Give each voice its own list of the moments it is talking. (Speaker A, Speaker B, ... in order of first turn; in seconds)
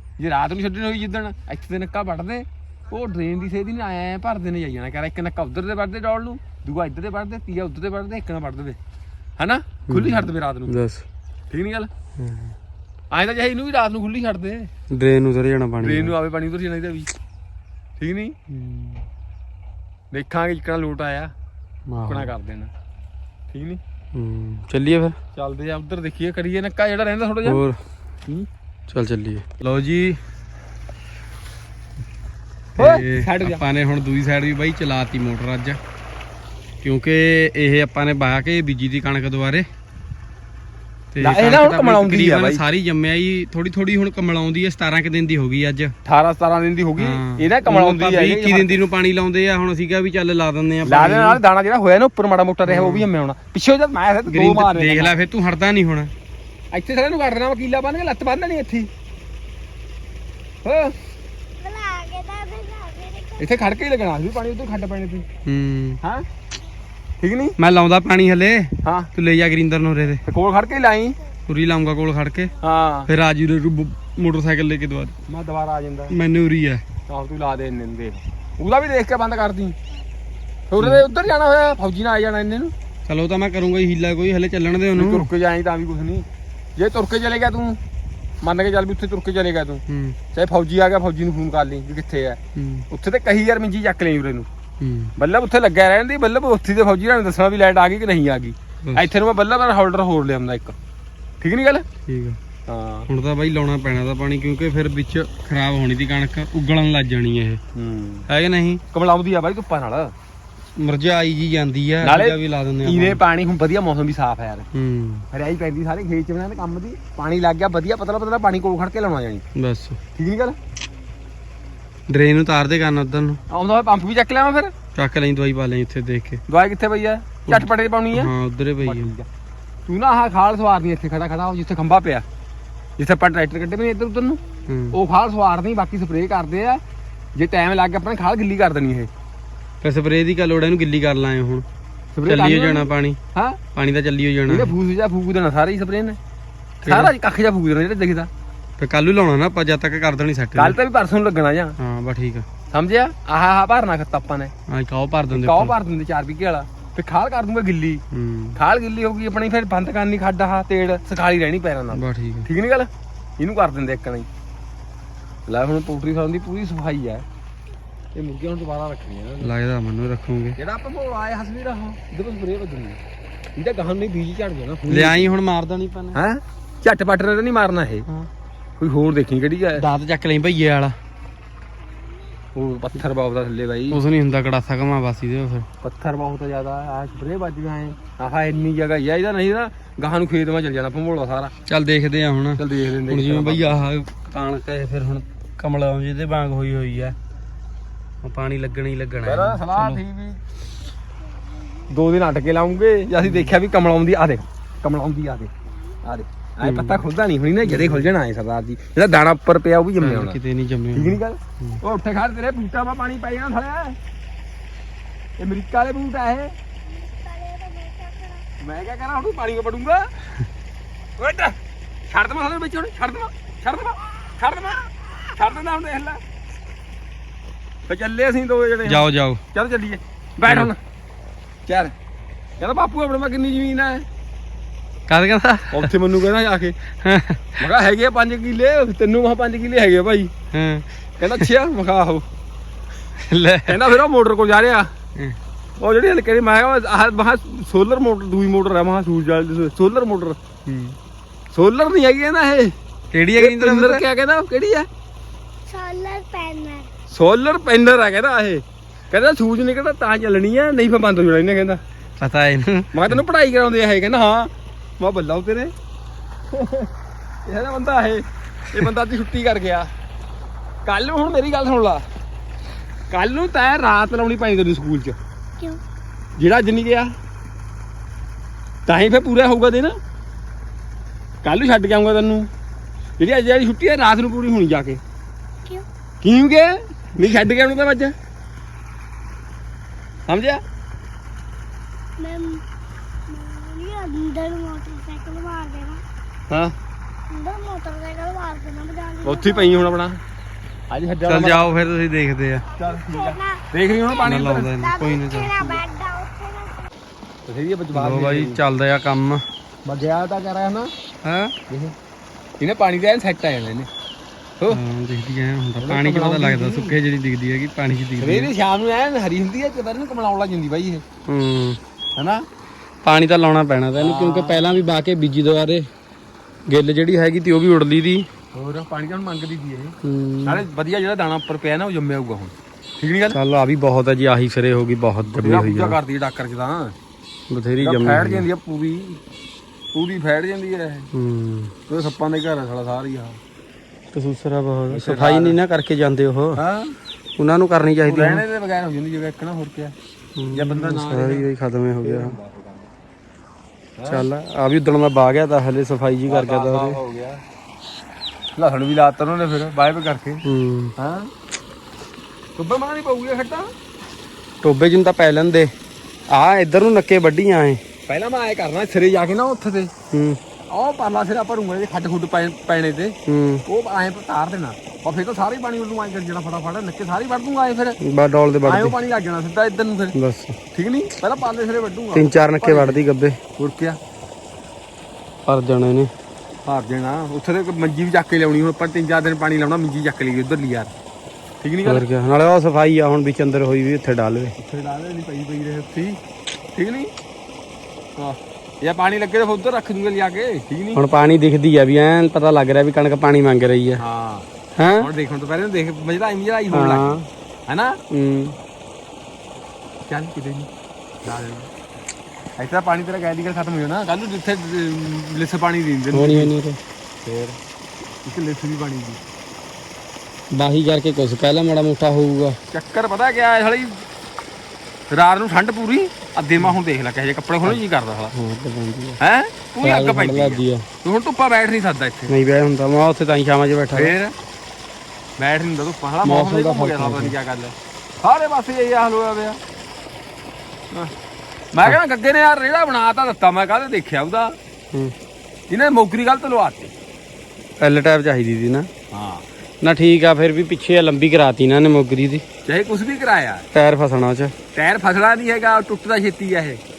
Speaker A: 0.2-8.8, 9.4-10.7, 11.5-11.9, 13.1-14.7, 15.8-17.1, 18.0-18.4, 20.1-21.3, 22.1-22.7, 23.5-23.8, 25.3-27.6, 32.8-33.6, 41.2-42.6, 46.1-48.8, 50.8-55.2, 56.7-58.9, 60.6-60.9, 63.4-65.2, 67.2-67.6, 68.8-69.1, 70.2-71.2, 72.6-73.1, 75.3-76.2, 77.1-79.8, 80.7-82.7, 84.9-87.8, 88.4-94.5, 95.2-100.8, 101.4-101.9, 102.7-103.1, 107.8-108.3, 108.9-110.1, 112.0-114.7, 115.3-119.4, 120.1-120.6, 123.5-124.7, 126.5-128.3, 128.8-129.3, 129.9-132.2, 133.0-134.4, 134.9-136.8, 137.4-139.1, 142.2-143.6, 144.5-146.2, 146.8-148.3, 150.6-151.8, 152.7-154.5, 155.3-158.0, 158.6-164.3, 165.5-167.2, 168.1-169.5, 170.6-173.0, 173.6-175.3, 176.1-178.1, 178.8-179.8, 182.6-184.0, 185.8-191.5, 192.6-193.9, 199.2-200.4, 201.9-210.4, 210.9-214.0, 215.4-216.5, 218.6-220.1, 221.2-226.2, 227.9-230.8, 231.7-231.9, 232.6-234.1, 235.7-236.8, 237.6-240.3, 241.2-242.2, 243.7-244.9, 245.8-250.4, 251.5-252.8, 253.4-254.9, 257.1-261.8, 262.9-265.7, 266.5-266.9, 267.4-269.9, 270.8-272.1, 273.1-275.2, 276.4-277.1, 278.9-280.0, 281.4-282.5, 283.2-285.0, 286.2-288.1, 290.3-290.6, 296.5-296.8, 299.2-300.2, 300.9-301.8, 302.8-304.8, 307.5-308.6, 309.9-310.9, 311.7-311.9, 312.6-313.9, 315.8-317.0, 318.2-321.0, 322.1-322.4, 324.0-324.7, 328.5-333.4, 335.4-336.9, 337.8-339.2, 339.9-341.1, 341.9-343.4, 344.9-345.6, 346.6-347.0, 348.0-349.9, 350.5-351.5, 352.0-352.9, 354.0-354.2, 356.3-357.4, 358.5-360.4, 361.0-361.3, 362.6-363.7, 368.1-369.9, 370.7-373.1, 373.7-378.0, 378.6-380.1, 380.7-383.0, 383.6-384.0, 386.6-390.9, 391.6-392.0, 394.6-396.2, 396.7-397.1, 398.2-401.0, 404.0-404.5, 405.0-408.0, 410.1-410.7, 411.2-411.7, 412.6-416.5, 417.2-417.6, 418.2-419.2, 422.7-424.0, 425.1-428.3, 429.2-432.3, 433.9-434.3, 435.4-439.6, 441.7-444.5, 445.7-446.9, 449.1-449.4, 452.6-453.6, 454.7-456.8
Speaker B: 9.9-11.0, 12.2-12.5, 14.9-16.1, 18.5-19.0, 21.9-22.3, 24.1-25.2, 27.4-27.8, 28.9-30.2, 32.8-35.8, 36.8-39.7, 41.1-45.9, 47.0-51.4, 52.6-53.1, 54.3-56.1, 65.5-66.0, 67.6-70.2, 71.5-72.5, 73.1-75.2, 76.1-76.8, 80.8-81.0, 83.1-85.3, 89.9-90.2, 92.6-92.9, 94.8-95.1, 102.1-102.4, 103.1-107.6, 108.3-108.8, 110.8-113.2, 114.7-115.3, 119.5-120.0, 122.1-123.4, 124.9-126.4, 127.5-129.1, 134.7-135.0, 139.8-141.6, 142.2-143.2, 143.8-144.7, 146.8-147.1, 148.8-150.8, 151.8-152.4, 154.7-155.8, 158.1-158.6, 161.9-162.5, 169.4-170.6, 174.9-176.2, 179.8-180.9, 183.9-185.7, 191.7-197.2, 198.2-200.0, 203.2-203.5, 206.6-207.1, 207.6-208.1, 210.0-211.8, 228.8-229.4, 230.4-230.7, 235.1-235.9, 237.0-237.5, 240.5-241.5, 243.2-243.9, 250.7-251.0, 253.1-254.1, 262.2-263.2, 301.2-302.7, 304.2-305.8, 307.9-309.4, 311.2-311.5, 314.7-318.5, 321.3-321.8, 323.0-325.9, 326.7-328.3, 330.0-330.6, 333.3-336.0, 337.5-338.5, 341.1-341.7, 344.1-346.6, 347.4-348.4, 350.4-352.4, 354.1-357.0, 360.4-360.9, 364.6-365.7, 366.3-367.8, 370.1-370.4, 373.3-373.6, 378.0-379.0, 380.1-380.6, 382.1-383.4, 385.5-386.1, 391.8-394.6, 400.9-404.0, 404.8-405.1, 406.7-407.3, 408.1-408.5, 416.1-416.8, 420.5-422.6, 428.3-429.2, 429.8-430.9, 432.3-434.1, 436.2-437.4, 447.8-448.9, 449.8-452.4, 453.7-454.5
Speaker C: 61.6-63.5, 216.8-218.4, 255.7-256.9, 292.2-292.6, 293.3-296.0, 297.3-299.9, 302.9-303.6, 304.8-306.9